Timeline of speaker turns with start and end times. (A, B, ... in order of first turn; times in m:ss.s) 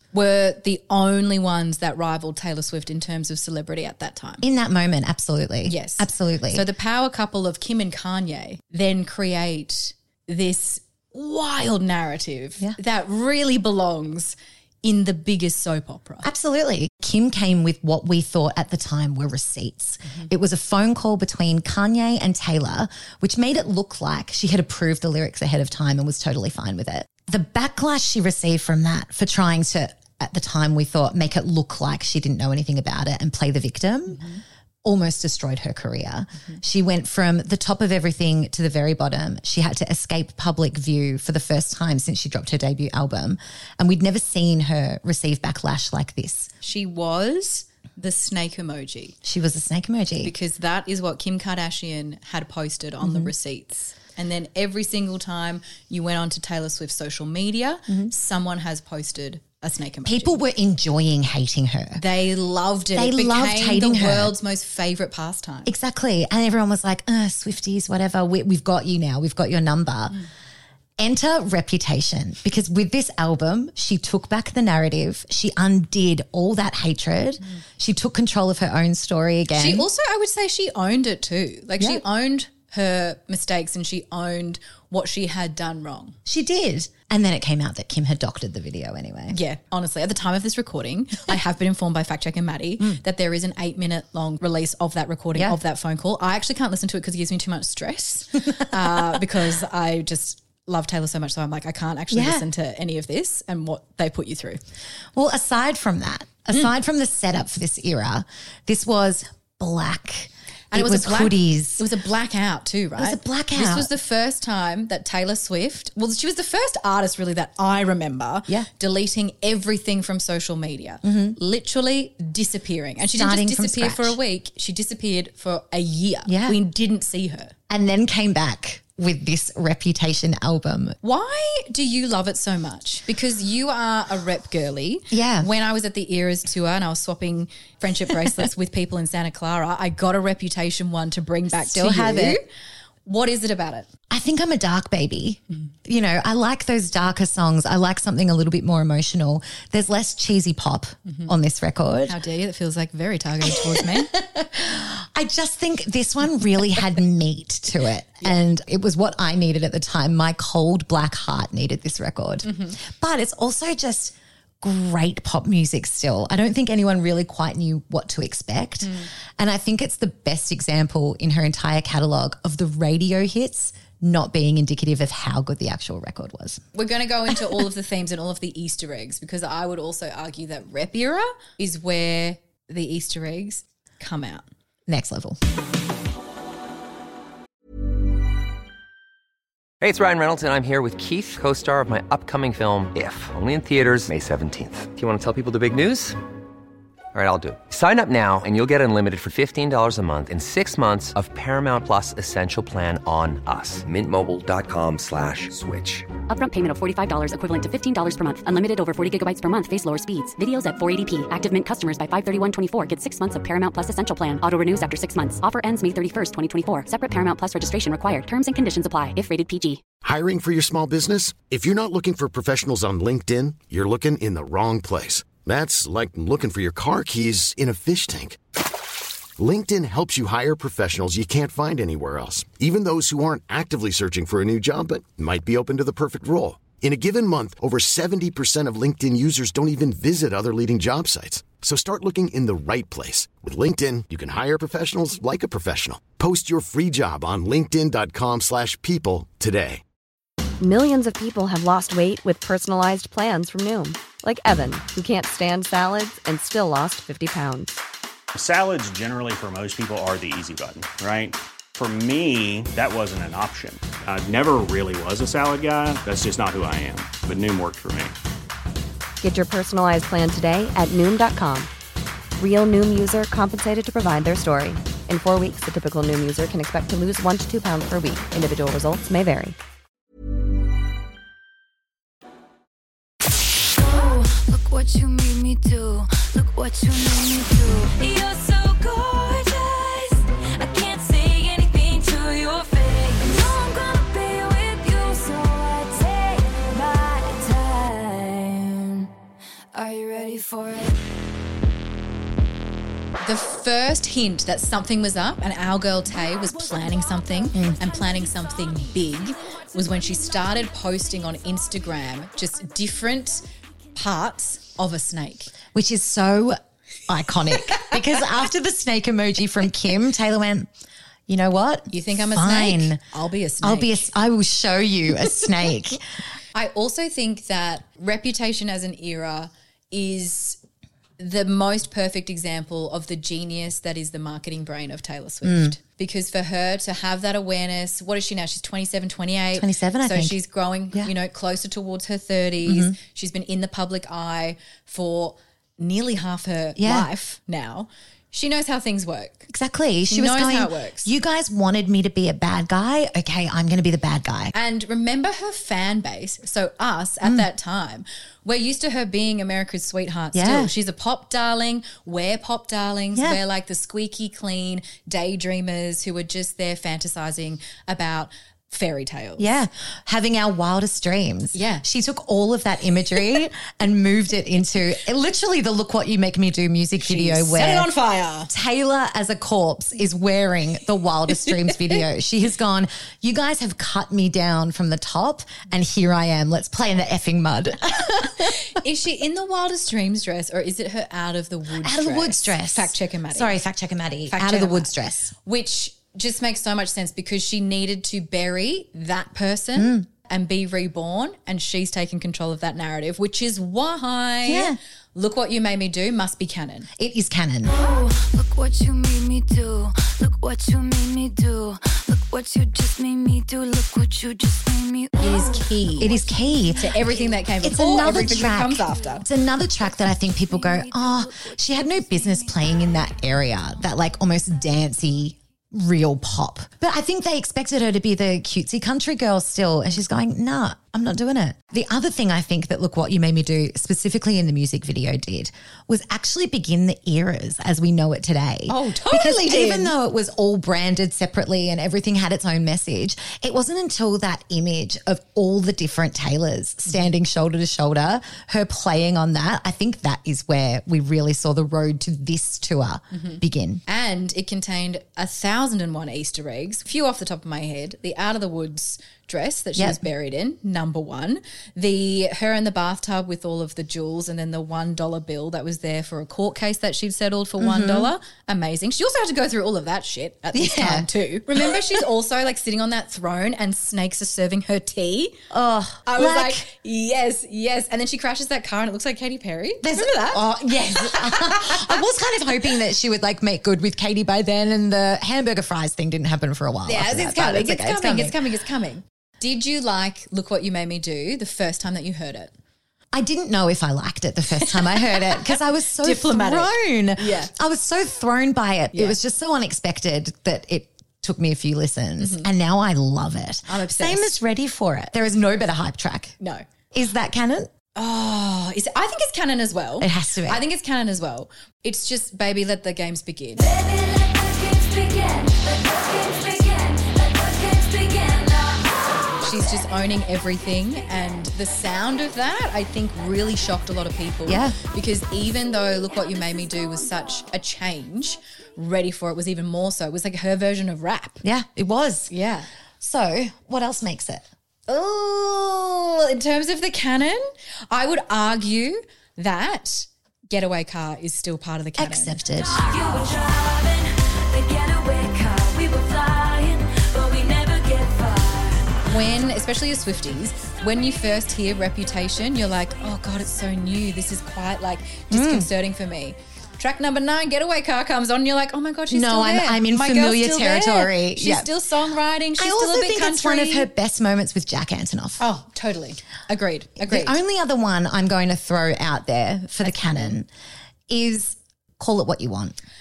0:00.1-0:04.4 A
0:04.4-0:06.6 B
0:05.6-0:16.3 A
0:16.2-0:34.2 B
0:34.8-0:46.5 B
0:46.6-0:49.2 A
0:49.2-0:50.3 B
0:50.2-1:00.4 A
0:53.0-0:53.3 B
1:00.0-1:02.0 B
1:02.0-1:05.7 A
1:02.9-1:04.3 B
1:05.6-1:10.2 B
1:11.0-1:19.9 B
1:19.5-1:26.2 A
1:26.2-1:29.4 B
1:29.3-1:44.6 A
1:38.8-1:39.2 B
1:42.1-1:42.4 B
1:45.1-1:51.9 B
1:50.7-2:07.5 A
1:53.0-1:53.9 B
2:01.0-2:01.4 B
2:03.1-2:04.2 B
2:06.2-2:06.6 B
2:07.7-2:11.0 B
2:11.0-2:22.4 A
2:15.1-2:15.5 B
2:21.6-2:22.4 B
2:23.0-2:23.9 A
2:24.1-2:32.2 B
2:32.1-2:34.1 A
2:33.4-2:56.6 B
2:42.4-2:42.8 A
2:48.8-2:49.1 A
2:56.7-3:04.4 A
3:04.9-3:05.4 B
3:09.8-3:16.2 C
3:17.1-3:26.1 C
3:26.3-3:39.8 D
3:40.0-3:48.4 E
3:49.4-4:09.8 E
4:10.6-4:17.8 F
4:18.3-4:28.2 G
4:29.2-4:31.7 F
4:32.4-4:39.6 F
4:43.7-4:59.1 H
4:59.7-5:01.0 H
5:03.2-5:13.4 A
5:07.5-5:07.8 B
5:13.9-5:15.5 A
5:15.7-5:20.7 B
5:21.3-5:23.0 B
5:21.9-5:24.0 A
5:23.6-5:26.0 B
5:26.5-5:30.6 A
5:31.2-5:49.5 A
5:35.4-5:35.8 B
5:39.6-5:40.4 B
5:42.6-5:43.0 B
5:46.8-5:47.1 B
5:49.5-5:54.5 B
5:50.1-5:51.1 A
5:54.5-6:09.5 A
6:00.3-6:00.7 B
6:09.4-6:17.9 B
6:11.5-6:11.8 A
6:17.0-6:18.5 A
6:18.5-6:28.5 B
6:28.2-6:33.6 A
6:31.8-6:35.3 B
6:34.3-6:34.9 A
6:35.4-6:46.9 A
6:39.8-6:40.1 B
6:44.4-6:44.8 B
6:47.0-6:47.7 B
6:47.7-6:55.7 H
6:55.2-6:56.2 A
6:56.0-7:33.8 B
6:56.8-6:59.2 A
7:00.4-7:02.5 H
7:18.7-7:19.9 A
7:33.1-7:55.4 A
7:39.8-7:40.0 B
7:47.6-7:48.1 B
7:50.5-7:51.8 B
7:55.5-7:56.6 B
7:56.0-8:02.0 A
7:59.8-8:08.4 B
8:06.8-8:12.5 A
8:13.1-8:26.3 B
8:14.6-8:17.5 A
8:18.9-8:19.2 A
8:22.2-8:22.5 A
8:23.7-8:24.4 A
8:26.9-8:27.7 B
8:27.9-8:33.6 A
8:30.0-8:30.6 B
8:33.6-8:39.0 H
8:39.4-8:51.4 A
8:44.4-8:44.8 B
8:51.4-8:52.3 B
8:52.3-8:52.7 A
8:53.0-8:54.4 B
8:54.9-9:02.4 A
9:02.0-9:02.8 B
9:02.7-9:09.0 H
9:09.1-9:23.9 A
9:15.3-9:15.7 B
9:19.1-9:21.7 B
9:22.6-9:25.4 B
9:25.4-9:27.4 A
9:27.0-9:30.5 B
9:29.8-9:30.3 A
9:31.1-9:32.8 B